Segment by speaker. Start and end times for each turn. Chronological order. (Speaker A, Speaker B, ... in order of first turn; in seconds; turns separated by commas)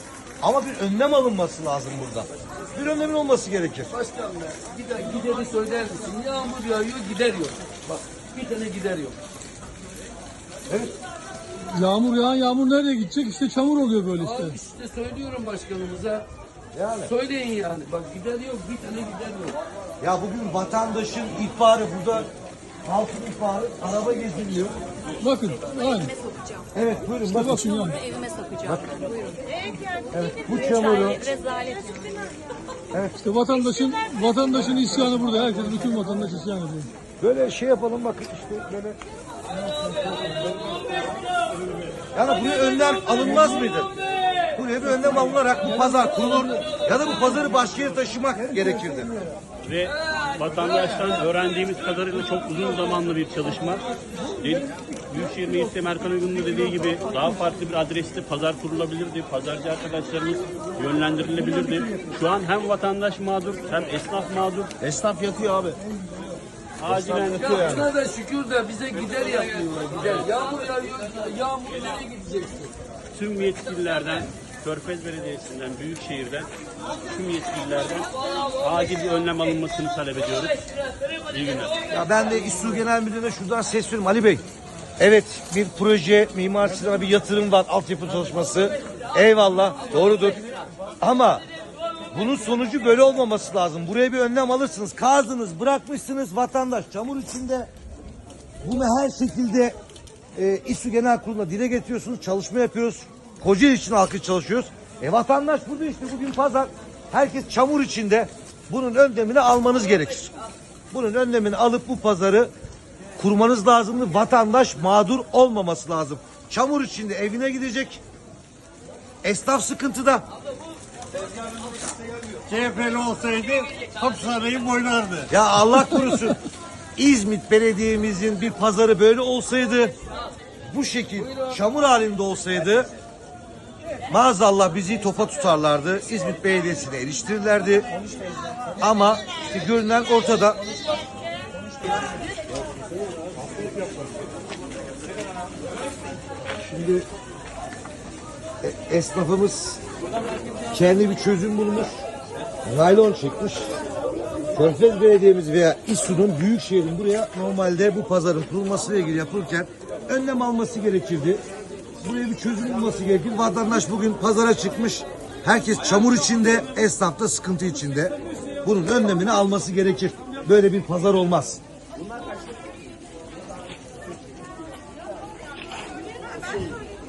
Speaker A: 0.4-3.9, Speaker B: 3.9-9.2, Speaker A: 10.7-10.9, Speaker C: 11.7-14.6, Speaker B: 14.2-16.2, Speaker A: 16.7-17.1, Speaker B: 17.0-19.6, Speaker A: 20.0-22.3, Speaker A: 22.8-24.8, Speaker C: 25.2-26.1, Speaker A: 26.7-27.7, Speaker C: 27.2-28.0, Speaker D: 28.0-29.4, Speaker A: 28.6-28.9, Speaker A: 30.1-31.3, Speaker D: 30.5-32.2, Speaker C: 33.2-36.9, Speaker A: 37.2-39.0, Speaker A: 39.8-40.7, Speaker A: 42.1-43.9, Speaker A: 44.5-49.1, Speaker E: 49.6-53.8, Speaker E: 54.4-64.7, Speaker F: 64.8-65.8, Speaker E: 66.8-67.9, Speaker F: 66.8-67.8, Speaker B: 67.3-72.7, Speaker E: 70.0-70.3, Speaker E: 73.1-76.5, Speaker E: 77.0-80.6, Speaker E: 81.2-81.8, Speaker A: 81.9-84.4, Speaker A: 85.0-90.4, Speaker A: 91.0-91.4, Speaker A: 92.1-97.7, Speaker A: 98.6-99.8, Speaker A: 100.3-110.3, Speaker A: 110.9-112.5, Speaker A: 113.2-118.0, Speaker A: 119.2-120.2, Speaker F: 122.5-125.3, Speaker A: 125.3-126.4, Speaker A: 127.0-129.9, Speaker A: 130.7-132.9, Speaker A: 134.1-137.9, Speaker A: 138.8-140.6, Speaker F: 143.2-144.1, Speaker A: 146.6-147.1, Speaker A: 148.6-149.8, Speaker A: 150.7-152.1, Speaker A: 152.6-153.7, Speaker A: 154.5-161.4, Speaker A: 162.0-171.6